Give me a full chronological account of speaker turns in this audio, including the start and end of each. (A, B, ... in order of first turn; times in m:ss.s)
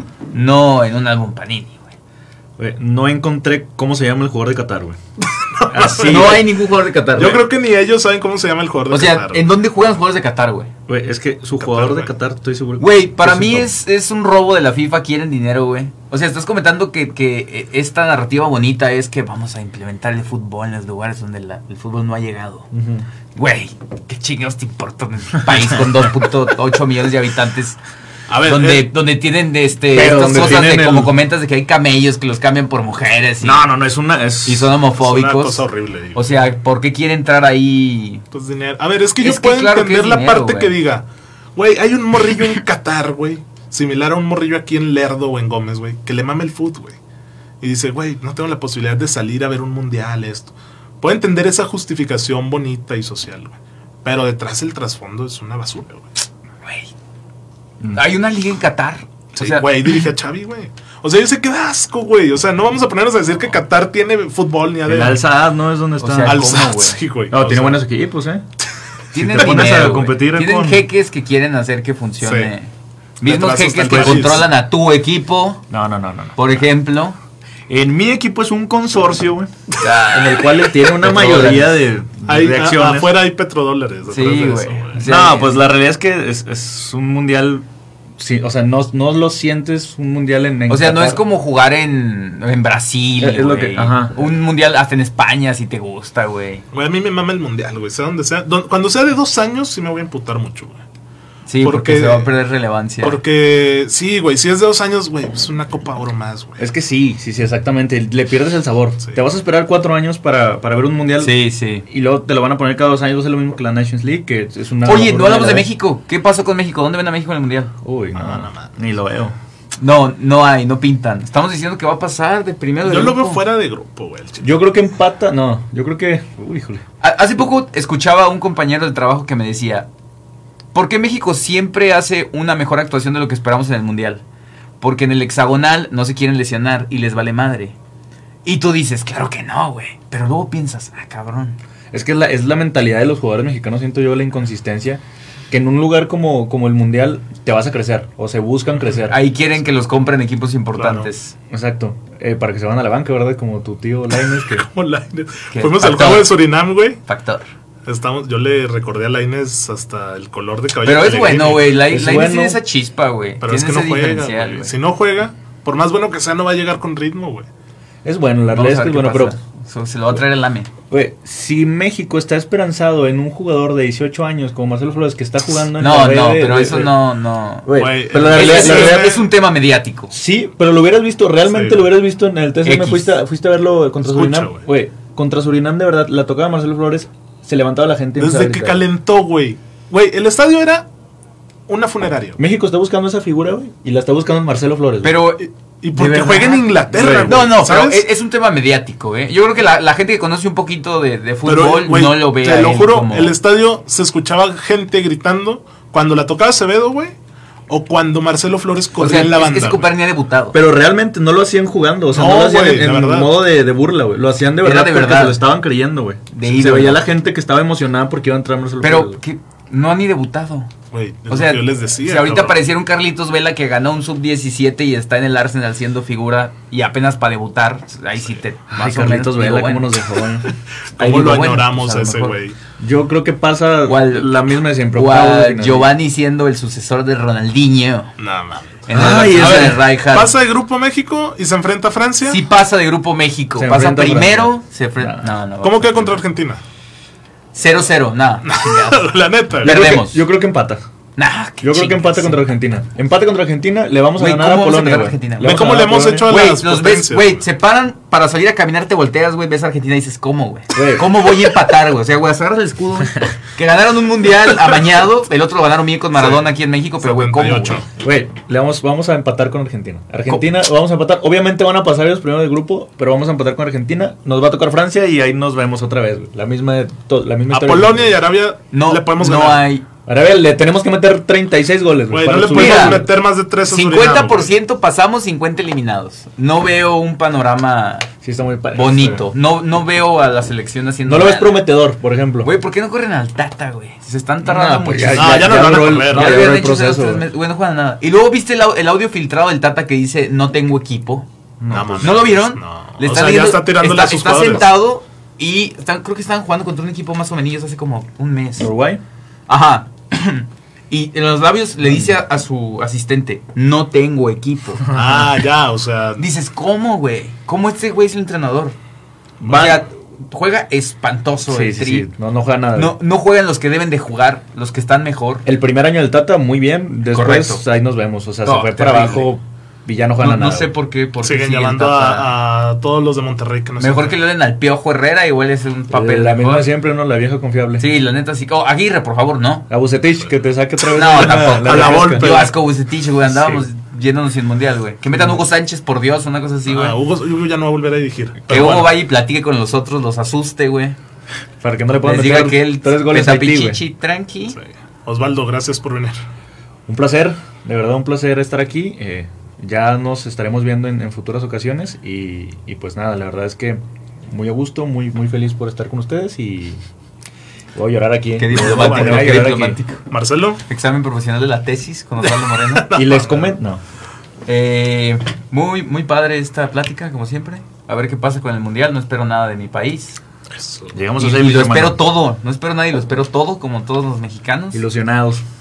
0:00.3-0:01.8 A
0:02.6-0:05.0 B
0:05.4-0:06.5 C
0:05.7-0:06.5 B
0:06.0-0:07.4 A
0:07.2-0:09.4 C
0:08.9-0:10.7 A
0:10.9-0:13.7 B
0:11.6-0:12.1 C
0:12.8-0:22.7 A
0:22.7-0:23.1 B
0:23.4-0:27.8 A
0:25.5-0:25.8 B
0:28.3-0:28.9 C
0:28.4-0:33.7 A
0:29.9-0:31.1 B
0:33.4-0:34.8 B
0:34.4-0:38.2 A
0:35.0-0:36.3 C
0:38.3-0:41.0 C
0:39.2-0:40.8 A
0:41.6-0:47.0 C
0:47.6-0:56.1 C
0:56.6-0:56.9 A
0:57.8-0:58.1 B
0:57.9-1:00.1 A
0:59.4-1:05.2 C
1:04.9-1:06.6 B
1:06.0-1:07.0 A
1:06.2-1:07.8 C
1:07.3-1:08.4 B
1:09.1-1:15.7 A
1:09.2-1:10.9 B
1:09.4-1:09.7 C
1:12.2-1:12.5 C
1:13.2-1:14.5 C
1:13.9-1:14.2 B
1:15.7-1:16.4 B
1:16.4-1:17.2 A
1:17.7-1:19.5 B
1:19.8-1:21.8 A
1:20.1-1:23.2 B
1:22.3-1:25.1 C
1:24.1-1:25.6 A
1:25.0-1:27.7 B
1:28.2-1:31.2 B
1:30.7-1:36.6 A
1:33.2-1:34.2 B
1:36.7-1:40.8 C
1:41.5-1:43.2 A
1:41.6-1:42.3 C
1:43.0-1:46.6 C
1:46.6-1:51.3 B
1:51.2-1:51.8 A
1:51.9-1:55.7 B
1:54.8-1:57.7 A
1:57.8-1:59.4 B
1:58.2-1:58.8 C
1:59.8-2:03.4 A
2:02.8-2:04.6 C
2:04.4-2:06.8 B
2:07.0-2:09.9 A
2:10.7-2:14.2 A
2:14.8-2:17.8 A
2:18.4-2:21.6 A
2:21.9-2:29.2 B
2:29.1-2:31.4 A
2:30.7-2:31.1 C
2:31.5-2:34.7 B
2:34.5-2:37.0 C
2:35.5-2:36.4 A
2:37.1-2:37.5 A
2:37.9-2:41.7 C
2:40.8-2:44.7 A
2:41.9-2:42.6 B
2:43.4-2:47.5 C
2:48.0-2:49.4 B
2:48.5-2:50.7 A
2:50.9-2:57.0 B
2:55.8-3:00.1 A
2:57.7-2:59.2 B
2:57.7-2:59.3 C
3:00.1-3:08.9 B
3:01.5-3:01.9 C
3:02.6-3:03.2 A
3:04.0-3:04.7 C
3:08.2-3:10.9 C
3:11.7-3:12.4 C
3:12.4-3:15.2 B
3:15.0-3:16.7 A
3:15.4-3:18.1 C
3:16.9-3:17.4 B
3:17.2-3:23.4 A
3:21.4-3:27.2 C
3:27.7-3:29.9 C
3:29.0-3:30.6 A
3:30.5-3:39.2 B
3:32.1-3:33.4 C
3:34.6-3:35.4 A
3:36.3-3:37.0 A
3:38.8-3:40.7 A
3:40.9-3:42.6 C
3:41.3-3:49.9 A
3:48.7-3:50.5 B
3:51.0-3:52.6 C
3:51.0-3:52.4 A
3:52.8-3:55.9 B
3:53.9-3:58.2 A
3:58.2-4:02.4 C
3:58.9-4:00.3 A
3:58.9-3:59.8 B
4:02.3-4:06.2 A
4:03.6-4:05.4 B
4:05.6-4:06.6 C
4:07.5-4:10.2 A
4:08.4-4:09.7 C
4:09.6-4:10.8 B
4:11.2-4:12.6 A
4:11.6-4:16.3 B
4:14.2-4:15.7 A
4:15.4-4:17.4 C
4:16.3-4:27.8 A
4:20.8-4:21.1 B
4:26.2-4:26.5 C
4:27.0-4:27.9 C
4:28.0-4:38.2 B
4:37.5-4:39.7 C
4:38.7-4:39.9 A
4:40.1-4:43.1 B
4:42.1-4:44.5 C
4:42.5-4:43.0 A
4:43.7-4:48.1 A
4:48.2-4:49.3 B
4:48.7-4:51.6 A
4:51.1-4:52.5 B
4:52.4-5:01.3 A
4:54.4-4:57.2 B
4:55.2-4:56.4 C
5:01.6-5:02.2 B
5:01.7-5:04.7 C
5:02.0-5:08.7 A
5:08.6-5:09.0 B
5:09.5-5:14.9 A
5:11.8-5:12.2 B
5:14.9-5:15.2 B
5:14.9-5:16.3 C
5:16.2-5:18.8 A
5:19.4-5:19.8 B
5:19.4-5:22.1 A
5:19.5-5:19.8 C
5:21.5-5:23.0 B
5:22.7-5:25.4 A
5:25.4-5:30.7 B
5:27.1-5:27.6 A
5:28.4-5:29.3 A
5:30.2-5:32.3 A
5:31.2-5:34.2 C
5:33.8-5:36.7 A
5:35.9-5:37.9 B
5:37.8-5:39.7 A
5:39.7-5:42.3 B
5:40.9-5:47.0 A
5:41.1-5:42.6 C
5:43.3-5:43.6 B
5:46.7-5:48.9 C
5:48.5-5:51.0 A
5:51.6-5:53.8 B
5:52.0-5:54.6 A
5:54.5-5:56.2 C
5:56.9-6:06.8 B
6:07.8-6:09.8 B
6:08.4-6:10.1 A
6:08.5-6:09.6 C
6:10.1-6:10.6 C
6:10.7-6:12.9 A
6:12.2-6:13.5 C
6:12.9-6:13.8 B
6:14.5-6:20.2 A
6:20.5-6:20.9 C
6:20.9-6:22.0 B
6:21.2-6:24.8 A
6:24.7-6:25.4 B